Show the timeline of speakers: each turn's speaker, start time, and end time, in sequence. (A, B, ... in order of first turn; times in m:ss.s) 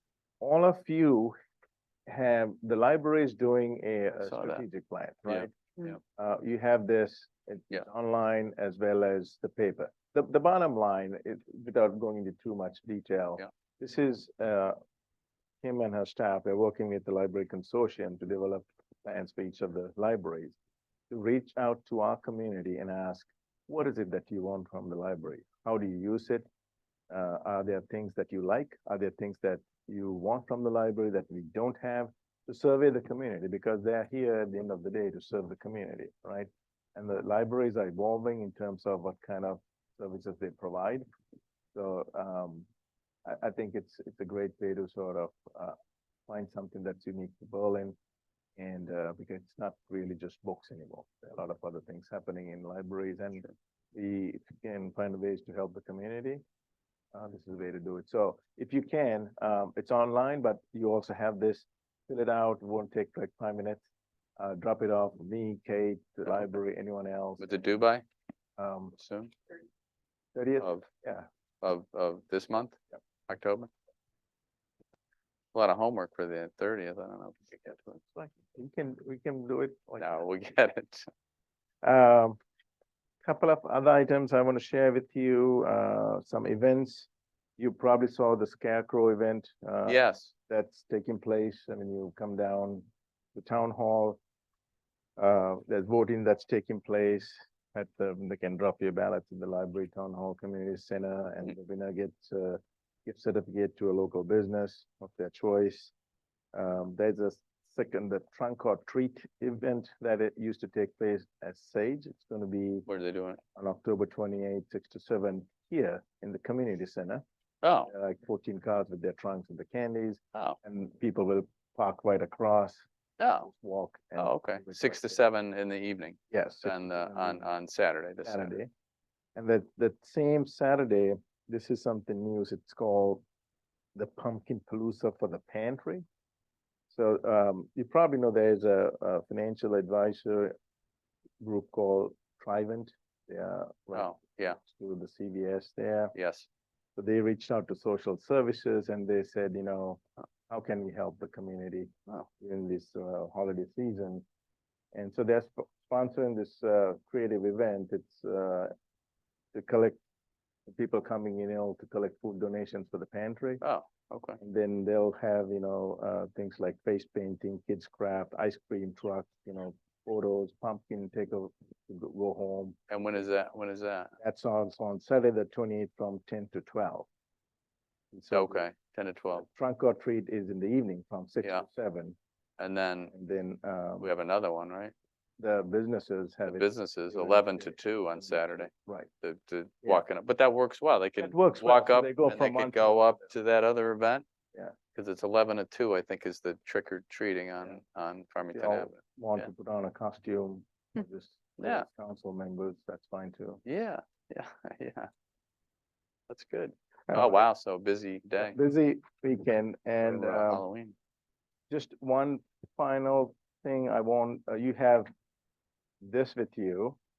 0:00.4-0:01.4 A
0:02.1-0:05.6 A
0:04.2-0:04.6 B
0:05.3-0:06.0 B
0:06.2-0:14.8 A
0:15.6-0:20.6 A
0:21.1-0:26.5 A
0:27.1-0:41.0 A
0:41.7-0:42.7 A
0:43.2-0:48.0 A
0:48.6-0:56.4 A
0:57.1-1:03.8 A
1:04.4-1:07.6 A
1:07.4-1:08.0 B
1:08.6-1:09.0 A
1:09.0-1:09.4 B
1:10.4-1:11.3 A
1:10.6-1:10.9 B
1:11.6-1:13.7 B
1:15.5-1:18.0 B
1:17.7-1:20.2 A
1:20.0-1:21.1 B
1:21.8-1:22.4 A
1:23.2-1:34.2 A
1:29.8-1:30.3 B
1:35.2-1:45.9 A
1:46.5-1:52.9 A
1:52.9-1:53.4 B
1:53.6-1:57.2 A
1:57.6-1:57.9 B
1:57.9-2:02.9 A
2:03.2-2:03.5 B
2:03.4-2:05.2 A
2:04.2-2:08.6 B
2:06.3-2:07.5 A
2:08.2-2:08.7 A
2:09.4-2:13.2 A
2:14.0-2:16.0 A
2:16.9-2:20.6 A
2:21.4-2:26.2 A
2:23.9-2:24.6 B
2:26.1-2:26.5 B
2:27.0-2:34.2 A
2:34.9-2:38.7 A
2:39.5-2:40.0 A
2:40.7-2:43.6 A
2:43.6-2:44.4 B
2:44.4-2:52.8 A
2:52.9-2:54.1 B
2:54.2-2:57.1 A
2:58.1-2:58.7 A
2:58.3-2:59.5 B
2:59.3-3:02.2 A
3:02.6-3:03.1 B
3:03.1-3:04.1 A
3:04.0-3:04.9 B
3:05.4-3:09.1 A
3:06.4-3:14.2 B
3:11.2-3:13.3 A
3:14.9-3:19.5 B
3:18.5-3:23.6 A
3:21.6-3:21.9 B
3:23.6-3:25.1 B
3:26.3-3:28.6 B
3:27.1-3:27.5 A
3:28.4-3:30.6 A
3:30.0-3:31.0 B
3:31.7-3:35.1 A
3:36.0-3:37.0 A